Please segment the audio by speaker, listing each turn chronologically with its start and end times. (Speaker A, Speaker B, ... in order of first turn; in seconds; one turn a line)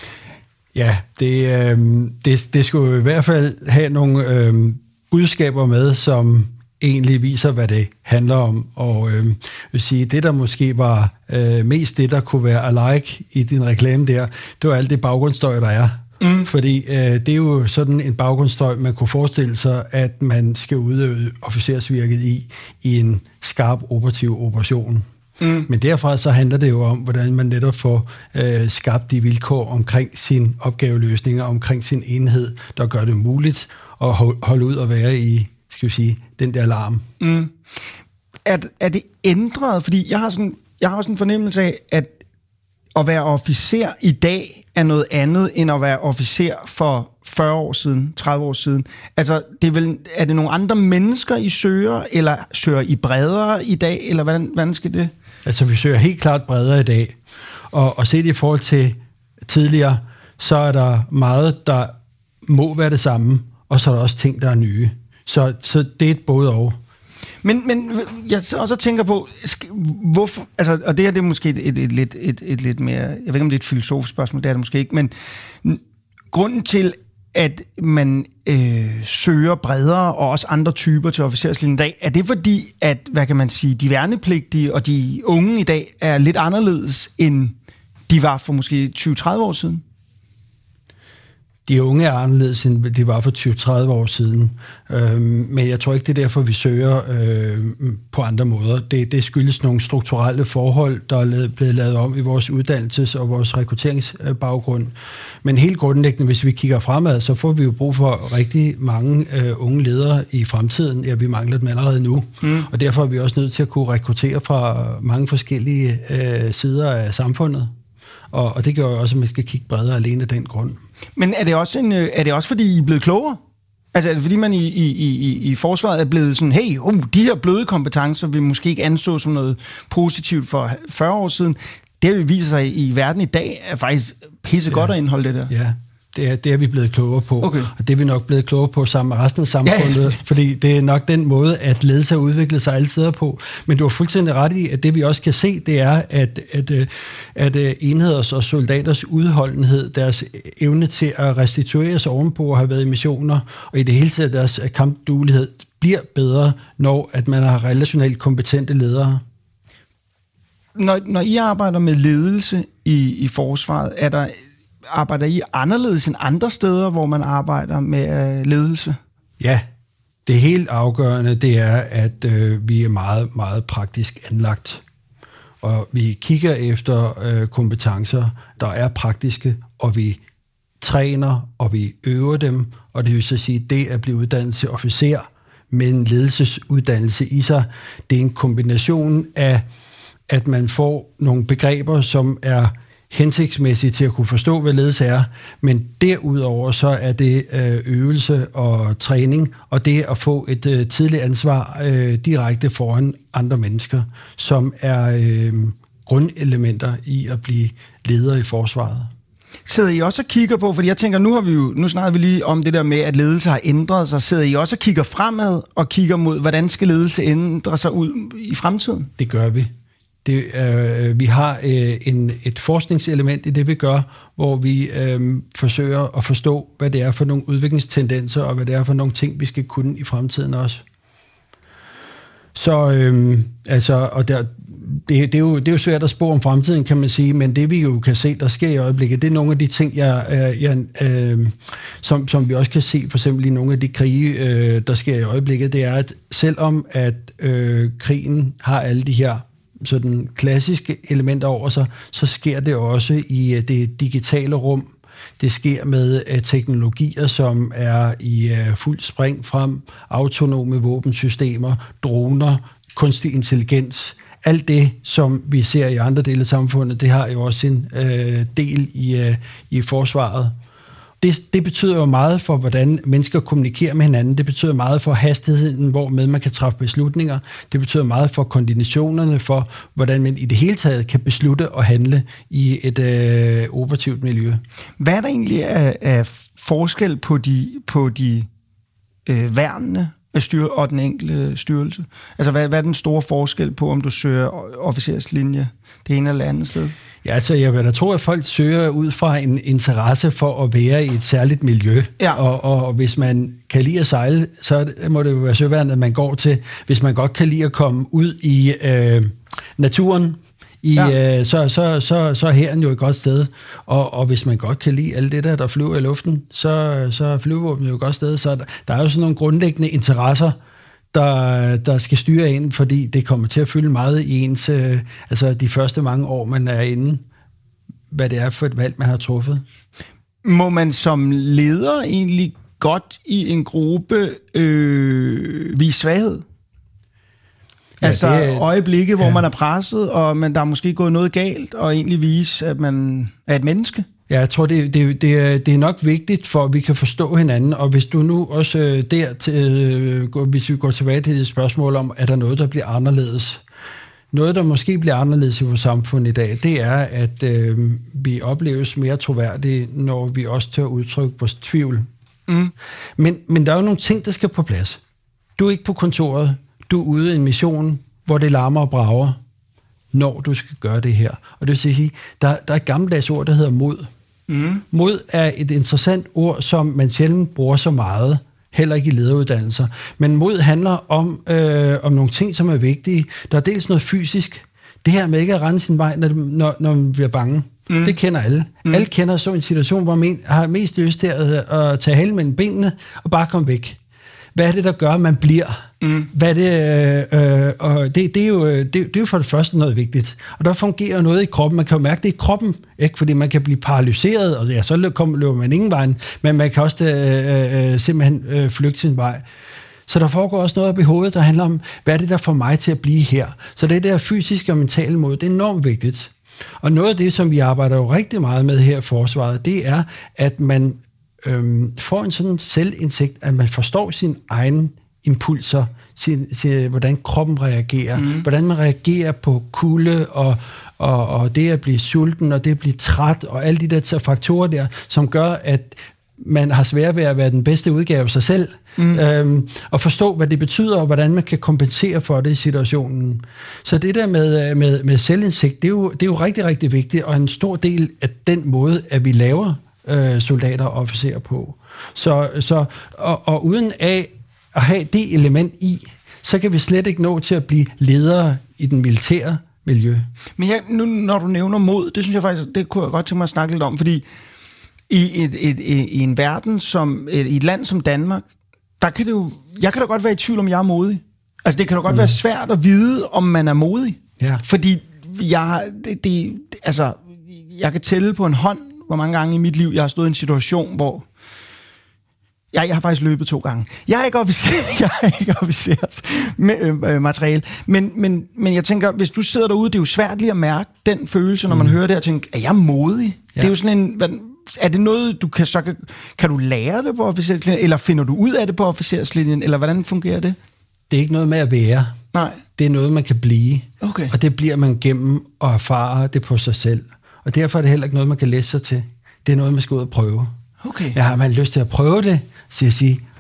Speaker A: 0.7-25.1
Speaker B: 16.2-16.5
Speaker B: 25.4-25.7
Speaker A: 25.7-37.1
Speaker B: 37.2-37.5
Speaker B: 38.5-42.1
Speaker B: 42.9-55.1
Speaker A: 55.4-57.2
Speaker A: 57.7-66.8
Speaker B: 67.4-87.5
Speaker B: 88.1-89.8
Speaker A: 91.7-117.7
Speaker B: 112.4-112.7
Speaker A: 118.3-120.8
Speaker B: 121.2-123.4
Speaker B: 123.9-135.5
Speaker A: 135.5-159.2
Speaker B: 137.4-137.7
Speaker B: 139.7-140.1
Speaker B: 160.8-164.3
Speaker B: 164.9-169.0
Speaker A: 169.4-169.7
Speaker A: 170.2-174.8
Speaker A: 175.6-180.2
Speaker A: 180.8-189.7
Speaker A: 190.3-209.1
Speaker B: 209.7-219.1
Speaker A: 219.2-219.7
Speaker A: 220.2-230.8
Speaker A: 232.5-270.5
Speaker A: 271.2-284.6
Speaker B: 285.0-288.5
Speaker B: 289.2-296.9
Speaker A: 297.2-320.6
Speaker A: 321.1-327.2
Speaker A: 328.1-329.6
Speaker B: 330.4-336.4
Speaker A: 338.0-338.6
Speaker B: 338.0-344.1
Speaker A: 344.3-353.6
Speaker A: 354.3-362.1
Speaker B: 362.5-362.7
Speaker A: 363.2-365.0
Speaker A: 365.6-369.4
Speaker A: 370.1-374.1
Speaker B: 374.5-374.8
Speaker A: 374.9-394.0
Speaker B: 387.9-388.1
Speaker A: 394.5-409.4
Speaker B: 396.0-396.3
Speaker A: 410.1-460.3
Speaker B: 428.2-428.4
Speaker B: 439.0-439.2
Speaker B: 460.6-464.2
Speaker B: 465.1-468.4
Speaker B: 469.0-481.2
Speaker A: 472.1-472.4
Speaker B: 482.7-500.6
Speaker A: 491.7-492.0
Speaker A: 501.1-502.1
Speaker B: 502.3-502.6
Speaker A: 502.8-510.5
Speaker B: 504.0-504.3
Speaker B: 510.8-511.2
Speaker A: 511.1-513.2